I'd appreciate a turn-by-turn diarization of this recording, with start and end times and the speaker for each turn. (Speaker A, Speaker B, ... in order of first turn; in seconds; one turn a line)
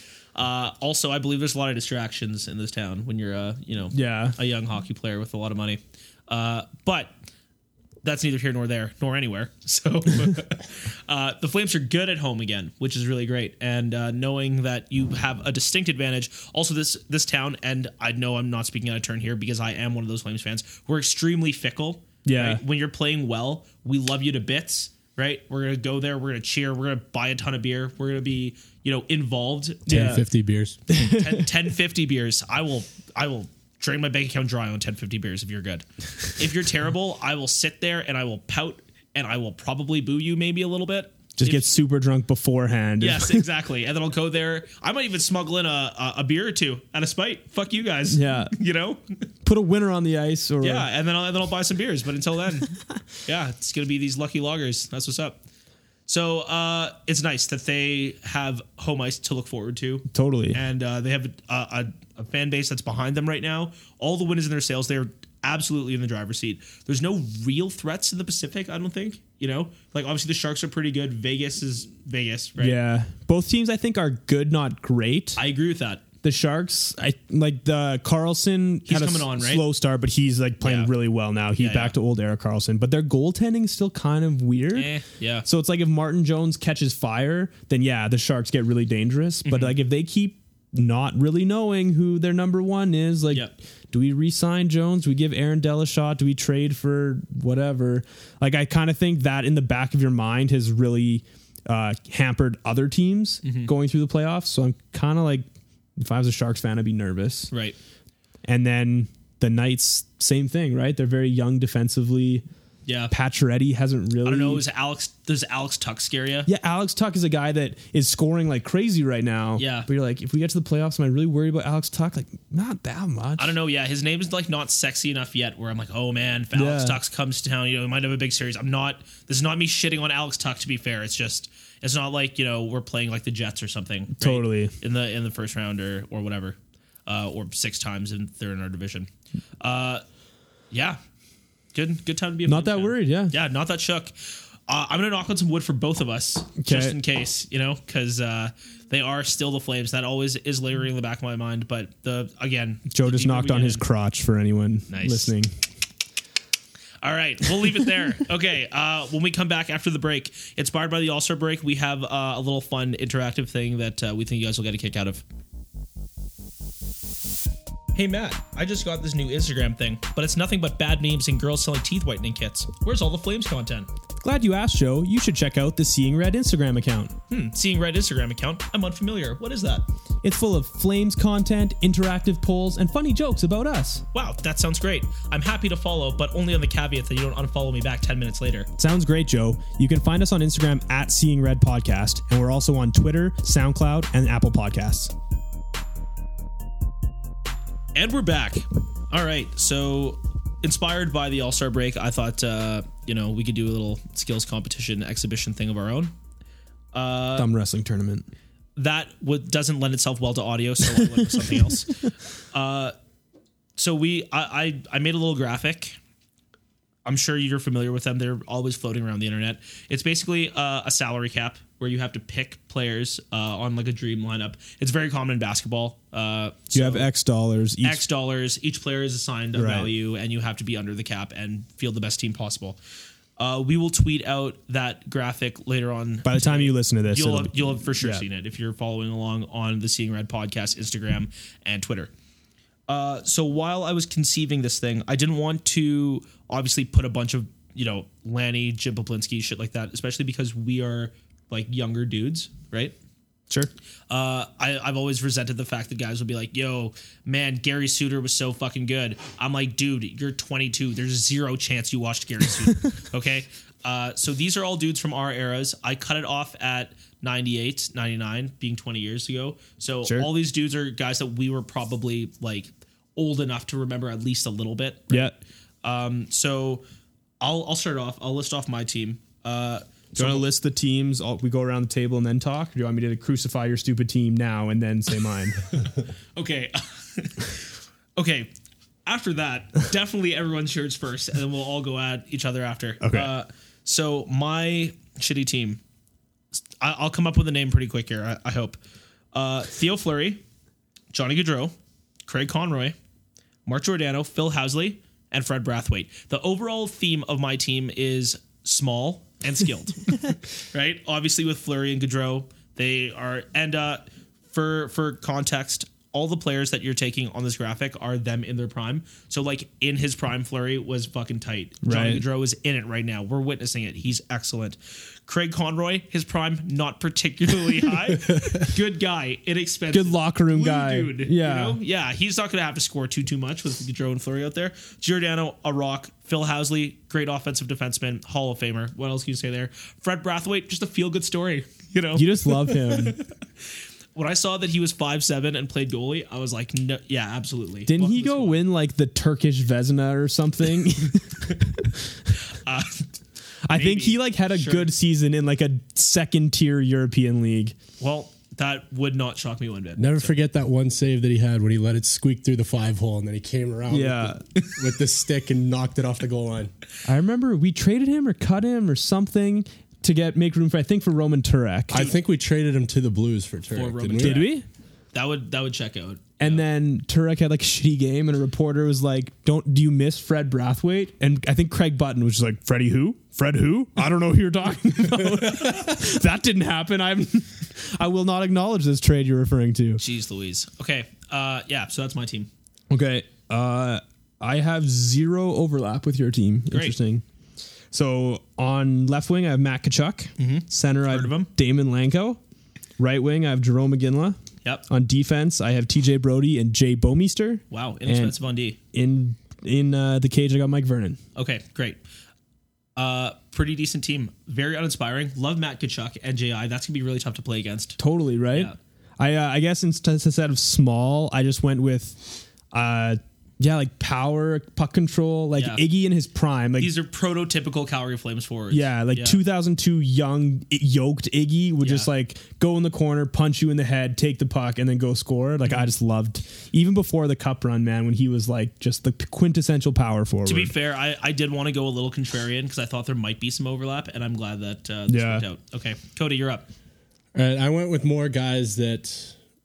Speaker A: 0.3-7.1
Speaker B: 3.9-4.4
Speaker A: 8.0-30.1
Speaker B: 22.2-22.6
Speaker B: 29.9-30.2
Speaker C: 29.9-30.8
Speaker B: 30.9-31.5
Speaker A: 30.9-41.7
Speaker B: 41.4-43.5
Speaker A: 43.0-49.0
Speaker B: 48.1-48.5
Speaker B: 49.5-50.9
Speaker A: 50.6-52.7
Speaker A: 53.2-55.4
Speaker A: 56.1-72.8
Speaker B: 60.1-60.6
Speaker B: 72.6-75.4
Speaker A: 75.4-76.0
Speaker B: 76.2-84.9
Speaker A: 78.9-79.6
Speaker A: 80.6-80.9
Speaker A: 81.6-82.0
Speaker A: 84.8-85.5
Speaker B: 85.5-105.5
Speaker A: 89.5-89.8
Speaker A: 103.4-103.7
Speaker B: 106.0-107.5
Speaker A: 107.5-107.8
Speaker B: 108.5-112.4
Speaker A: 112.9-113.1
Speaker B: 113.1-114.6
Speaker A: 114.2-116.5
Speaker B: 116.5-123.5
Speaker A: 119.6-119.9
Speaker A: 123.4-139.1
Speaker B: 126.5-127.0
Speaker B: 134.2-134.7
Speaker A: 139.6-140.0
Speaker A: 140.7-141.0
Speaker A: 141.7-153.8
Speaker B: 142.5-143.3
Speaker B: 146.6-147.0
Speaker B: 152.9-155.5
Speaker A: 154.9-155.3
Speaker A: 157.0-165.2
Speaker A: 167.9-173.9
Speaker B: 174.2-177.1
Speaker A: 177.3-179.9
Speaker B: 180.2-184.1
Speaker A: 184.1-188.7
Speaker B: 188.8-195.1
Speaker A: 197.9-206.1
Speaker A: 206.9-207.5
Speaker B: 207.3-208.3
Speaker A: 208.8-212.9
Speaker A: 213.8-216.0
Speaker A: 217.1-227.1
Speaker B: 226.7-228.0
Speaker A: 227.8-232.8
Speaker B: 229.6-229.9
Speaker A: 233.4-242.1
Speaker B: 236.2-238.2
Speaker A: 242.9-252.9
Speaker A: 254.1-276.8
Speaker B: 275.1-275.4
Speaker A: 277.4-280.4
Speaker B: 280.1-285.6
Speaker A: 286.4-288.5
Speaker A: 289.1-295.8
Speaker B: 293.0-293.3
Speaker A: 296.8-298.8
Speaker A: 299.3-300.4
Speaker A: 301.1-301.7
Speaker A: 302.3-303.0
Speaker A: 303.7-343.3
Speaker B: 321.8-322.2
Speaker B: 329.9-331.8
Speaker B: 342.1-343.2
Speaker A: 344.1-348.7
Speaker B: 347.9-352.2
Speaker A: 352.5-353.1
Speaker B: 353.7-357.8
Speaker A: 353.7-354.9
Speaker A: 358.0-360.3
Speaker C: 360.0-366.7
Speaker B: 363.9-364.4
Speaker B: 367.1-372.0
Speaker C: 371.9-374.4
Speaker A: 373.7-374.6
Speaker B: 374.2-374.6
Speaker A: 375.1-376.6
Speaker B: 376.4-390.0
Speaker A: 390.0-392.5
Speaker B: 392.9-397.2
Speaker A: 396.7-397.0
Speaker B: 397.9-402.4
Speaker A: 400.4-401.5
Speaker B: 403.0-404.4
Speaker B: 404.9-408.4
Speaker A: 407.7-408.8
Speaker B: 408.9-411.2
Speaker A: 411.4-412.0
Speaker A: 413.0-418.0
Speaker B: 418.0-426.9
Speaker A: 425.6-425.8
Speaker A: 426.8-429.4
Speaker B: 428.7-440.7
Speaker A: 431.8-432.1
Speaker A: 440.4-446.7
Speaker B: 445.1-445.4
Speaker C: 447.3-449.4